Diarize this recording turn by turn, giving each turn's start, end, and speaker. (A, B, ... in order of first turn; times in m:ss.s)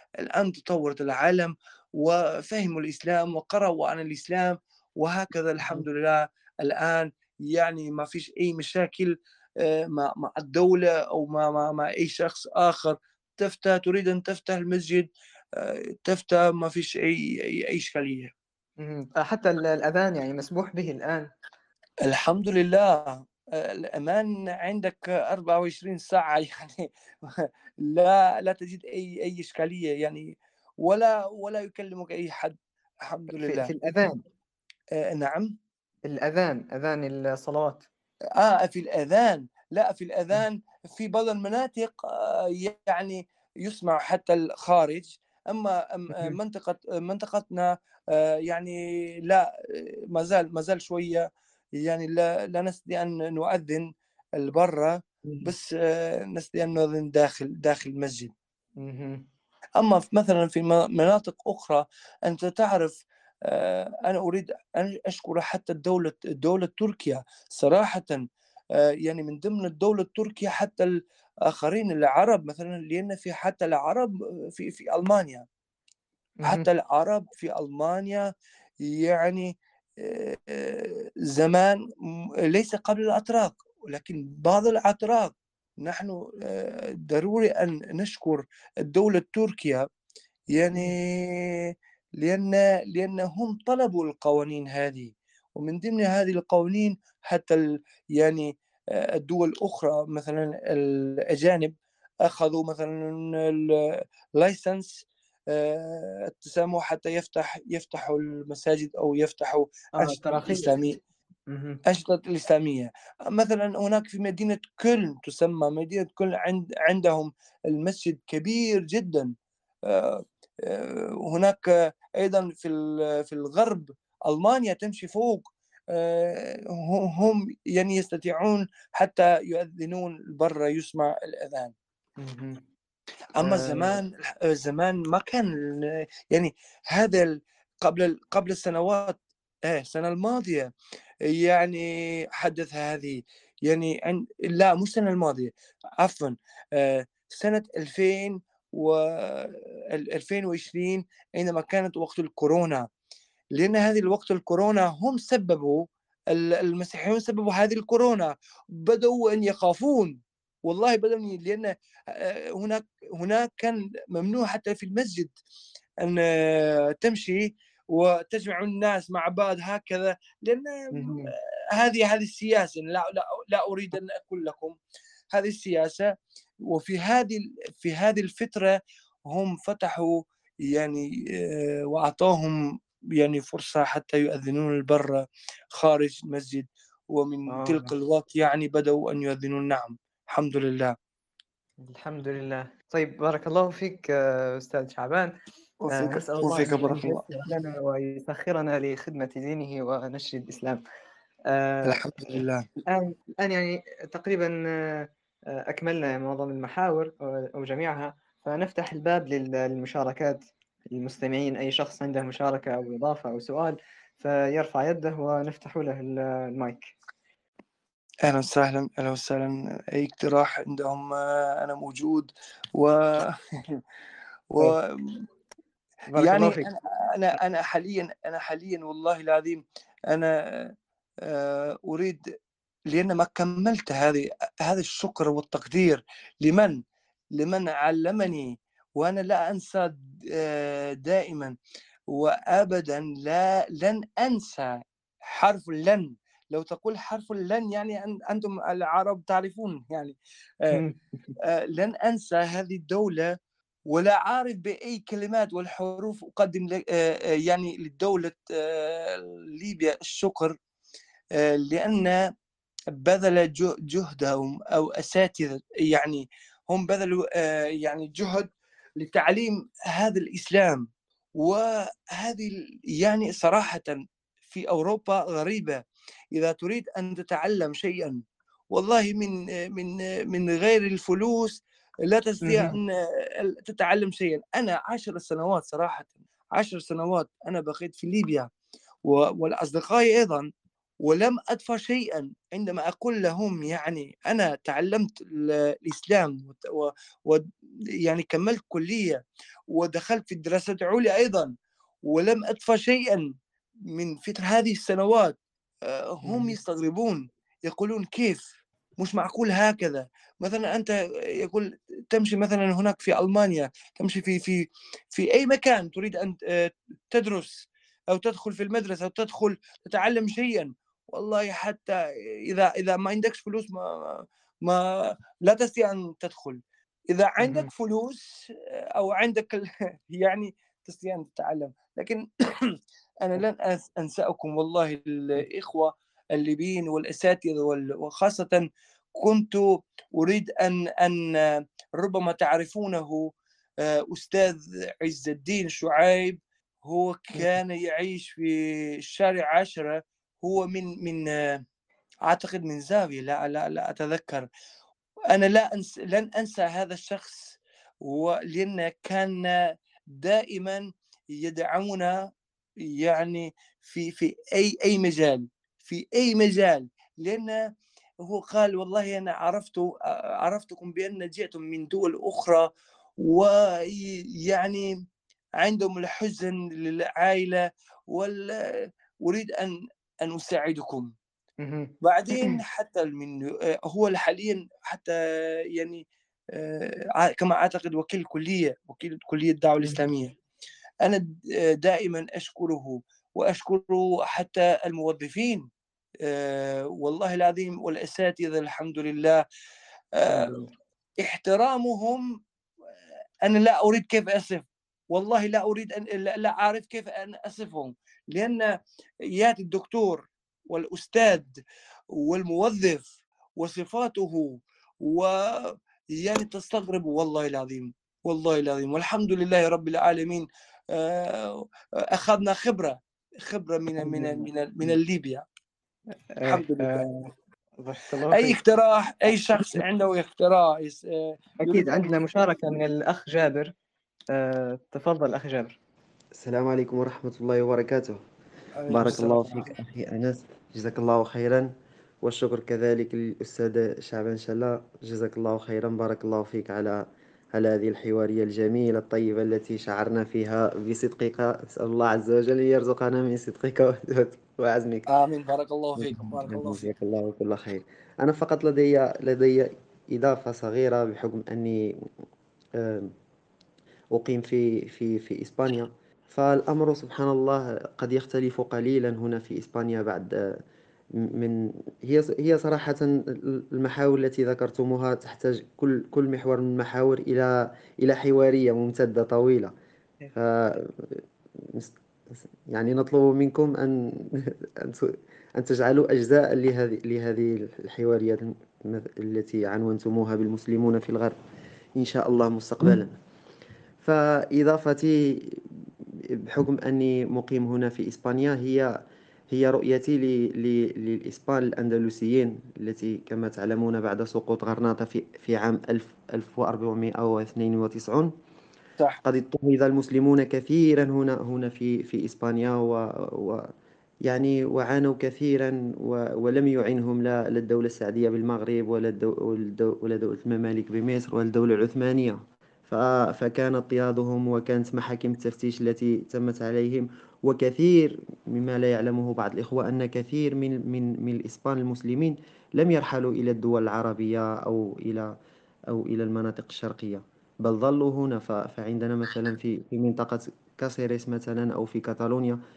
0:00.2-0:18.3 A
0:18.8-0:21.3 B
0:22.0-0:33.7 A
0:33.3-0:34.2 B
0:34.9-0:35.6 A
0:36.1-0:37.9 B
0:38.4-0:51.3 A
0:51.8-0:58.3 A
0:55.3-0:55.5 B
0:58.8-0:59.2 B
0:59.8-1:08.2 A
1:08.8-1:15.5 A
1:16.4-1:16.7 B
1:16.5-1:18.3 A
1:18.8-1:21.8 A
1:22.5-1:29.9 A
1:30.5-1:51.0 A
1:50.0-1:50.7 B
1:51.5-1:51.8 B
1:51.8-1:59.3 A
1:59.9-2:11.7 A
2:12.2-2:12.6 B
2:13.4-2:20.7 A
2:13.4-2:14.0 B
2:21.3-2:32.9 A
2:33.5-2:45.4 A
2:46.0-2:54.8 A
2:50.9-2:51.3 B
2:55.3-2:56.1 A
2:56.7-3:02.6 A
3:03.2-3:11.0 A
3:07.5-3:07.9 B
3:11.8-3:15.4 B
3:15.8-3:17.4 A
3:15.9-3:20.8 B
3:21.5-3:22.0 B
3:21.8-3:22.7 A
3:22.9-3:36.9 B
3:38.2-3:43.8 A
3:44.5-3:45.2 A
3:46.1-3:46.7 B
3:46.2-3:52.2 A
3:52.9-3:56.8 A
3:57.4-4:01.6 A
4:02.1-4:10.8 A
4:10.7-4:11.4 B
4:11.4-4:13.3 A
4:13.9-4:20.6 A
4:21.4-4:22.3 A
4:22.9-4:30.9 A
4:31.4-4:35.8 A
4:36.3-4:38.2 A
4:38.7-4:48.5 A
4:42.4-4:42.8 B
4:49.0-4:50.5 A
4:51.0-4:57.4 A
4:58.0-5:01.5 A
5:02.1-5:03.3 A
5:04.0-5:08.4 A
5:06.2-5:06.6 B
5:09.0-5:38.7 A
5:27.4-5:27.7 B
5:39.2-5:43.3 A
5:43.8-5:51.6 A
5:52.3-5:54.5 A
5:55.3-6:02.2 A
6:03.0-6:07.6 A
6:08.2-6:12.7 A
6:13.2-6:14.9 A
6:15.6-6:21.1 A
6:21.6-6:22.6 B
6:22.0-6:25.2 A
6:25.7-6:30.4 A
6:31.0-6:35.6 A
6:36.2-6:39.4 A
6:40.2-6:40.6 A
6:40.3-6:40.7 B
6:41.2-6:42.3 A
6:43.4-6:48.7 A
6:49.4-6:51.6 A
6:52.2-7:05.4 A
7:04.0-7:05.0 B
7:06.3-7:07.3 B
7:06.4-7:07.1 A
7:07.8-7:08.6 B
7:08.3-7:12.2 A
7:09.3-7:09.8 B
7:11.6-7:13.7 B
7:14.3-7:15.8 B
7:16.4-7:18.2 C
7:18.8-7:19.8 A
7:18.9-7:21.7 C
7:22.2-7:35.1 C
7:35.1-7:36.9 A
7:36.0-7:42.1 C
7:42.8-7:43.1 C
7:44.2-7:50.6 C
7:51.2-7:59.7 C
8:00.4-8:01.9 C
8:02.7-8:11.4 C
8:12.0-8:13.1 C
8:14.0-8:18.9 C
8:19.5-8:28.3 C
8:29.2-8:33.7 C
8:34.2-8:55.3 C
8:55.9-9:02.6 C